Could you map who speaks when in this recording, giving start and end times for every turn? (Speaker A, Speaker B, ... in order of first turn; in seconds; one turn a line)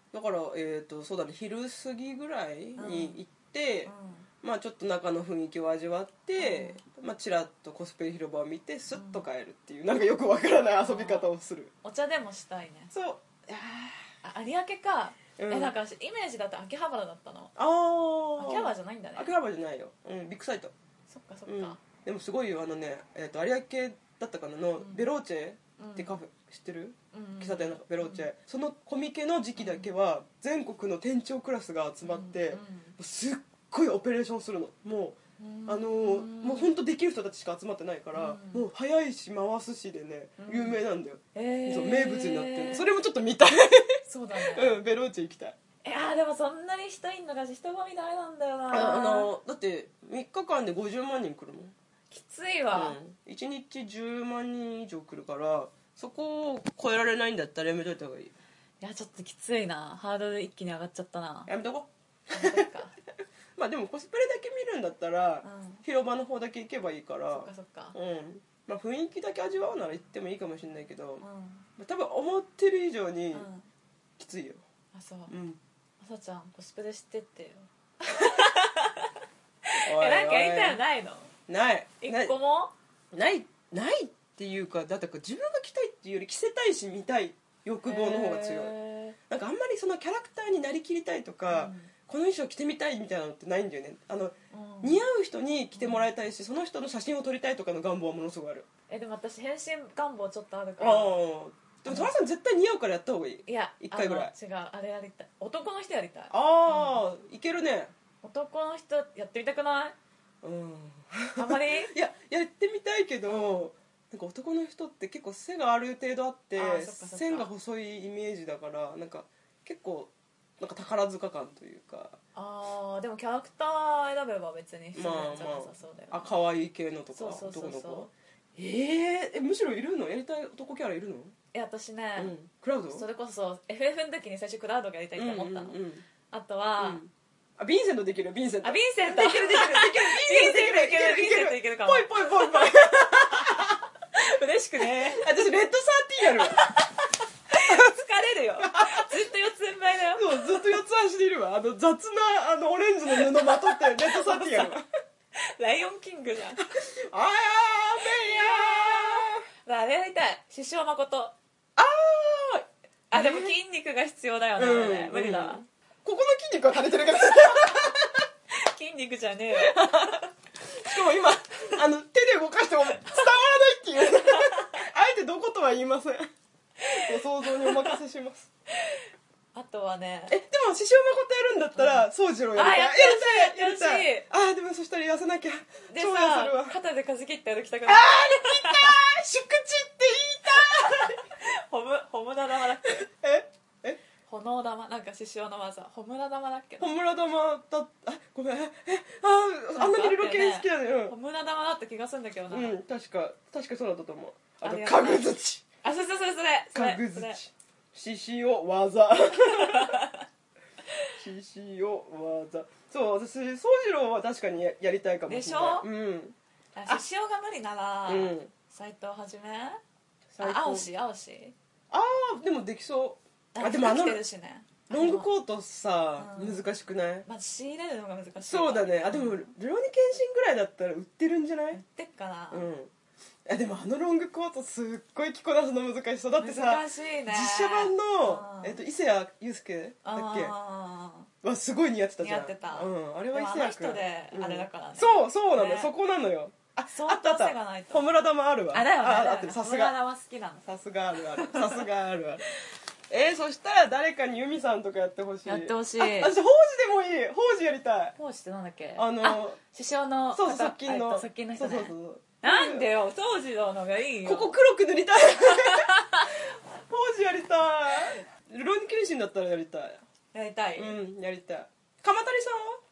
Speaker A: 0.1-11.7
Speaker B: 2.8-3.2
Speaker B: 3.9-4.3
Speaker B: 6.4-6.8
Speaker B: 8.9-9.2
Speaker B: 10.8-11.3
Speaker B: 11.8-12.9
Speaker A: 12.9-14.1
Speaker B: 14.2-17.5
Speaker A: 15.4-15.7
Speaker A: 17.6-20.7
Speaker B: 18.4-19.3
Speaker B: 21.1-21.8
Speaker A: 21.5-45.5
Speaker B: 24.8-25.1
Speaker B: 25.8-26.1
Speaker B: 27.1-28.3
Speaker B: 29.6-29.9
Speaker B: 32.0-33.0
Speaker B: 35.4-36.7
Speaker B: 38.1-38.7
Speaker B: 40.4-40.8
Speaker B: 41.3-42.9
Speaker B: 44.0-44.8
Speaker B: 45.8-49.3
Speaker A: 48.7-51.7
Speaker B: 52.1-53.0
Speaker A: 52.7-58.3
Speaker B: 58.8-61.5
Speaker A: 61.5-62.7
Speaker B: 62.3-62.9
Speaker A: 63.5-71.2
Speaker B: 65.4-65.8
Speaker B: 67.3-68.0
Speaker B: 71.2-71.6
Speaker A: 71.8-73.5
Speaker B: 73.3-73.7
Speaker A: 74.2-74.6
Speaker B: 74.9-75.3
Speaker A: 75.3-75.6
Speaker B: 76.0-79.1
Speaker B: 79.7-81.3
Speaker A: 79.8-80.8
Speaker A: 81.5-82.3
Speaker B: 82.0-82.7
Speaker A: 83.1-88.7
Speaker B: 87.8-89.2
Speaker A: 89.3-98.7
Speaker B: 91.5-91.9
Speaker B: 94.5-95.0
Speaker B: 95.8-96.1
Speaker B: 98.9-101.2
Speaker A: 100.8-104.3
Speaker B: 101.9-102.1
Speaker B: 103.5-107.0
Speaker A: 106.3-107.9
Speaker B: 108.2-110.0
Speaker A: 110.4-122.2
Speaker B: 111.3-111.9
Speaker B: 113.3-113.7
Speaker B: 116.5-117.5
Speaker B: 122.3-126.3
Speaker A: 124.9-131.3
Speaker B: 127.1-128.1
Speaker B: 131.5-132.3
Speaker A: 132.2-133.0
Speaker B: 132.9-135.8
Speaker A: 135.2-136.1
Speaker B: 136.3-137.0
Speaker A: 136.8-143.8
Speaker B: 138.6-143.6
Speaker B: 144.1-145.3
Speaker A: 144.8-146.6
Speaker B: 146.2-150.7
Speaker A: 148.6-149.1
Speaker A: 150.1-154.9
Speaker B: 153.1-154.8
Speaker B: 155.6-156.6
Speaker A: 156.8-159.4
Speaker B: 158.0-161.3
Speaker A: 161.8-163.5
Speaker B: 163.1-165.6
Speaker A: 164.6-168.2
Speaker B: 168.5-170.3
Speaker A: 169.5-176.2
Speaker B: 174.1-174.8
Speaker B: 176.8-178.0
Speaker A: 176.9-178.5
Speaker B: 179.5-180.4
Speaker A: 180.3-186.8
Speaker B: 181.8-182.0
Speaker B: 182.6-184.2
Speaker B: 185.9-189.0
Speaker A: 187.8-191.2
Speaker B: 190.5-193.0
Speaker A: 193.0-194.0
Speaker B: 194.3-196.9
Speaker A: 196.8-201.1
Speaker B: 199.8-202.7
Speaker A: 202.5-205.6
Speaker B: 204.6-205.3
Speaker B: 205.8-207.4
Speaker A: 206.7-210.0
Speaker B: 209.4-210.2
Speaker A: 211.2-216.3
Speaker B: 215.3-215.9
Speaker B: 216.8-219.8
Speaker A: 218.1-218.5
Speaker A: 220.3-220.9
Speaker B: 220.4-221.5
Speaker A: 221.9-224.2
Speaker B: 223.5-225.3
Speaker A: 224.9-227.2
Speaker B: 226.2-226.6
Speaker B: 227.3-229.5
Speaker A: 228.4-231.8
Speaker B: 231.7-232.7
Speaker A: 232.5-232.9
Speaker A: 233.4-240.5
Speaker B: 236.4-238.8
Speaker B: 240.0-241.3
Speaker A: 241.4-249.9
Speaker B: 242.2-245.9
Speaker B: 246.9-248.0
Speaker B: 248.7-250.7
Speaker A: 250.6-252.4
Speaker B: 251.2-251.8
Speaker A: 253.1-258.1
Speaker B: 255.4-256.3
Speaker B: 258.1-264.6
Speaker A: 258.9-259.6
Speaker A: 260.3-262.9
Speaker A: 264.2-265.9
Speaker B: 265.5-266.3
Speaker A: 266.8-270.0
Speaker B: 270.3-271.0
Speaker A: 270.8-272.8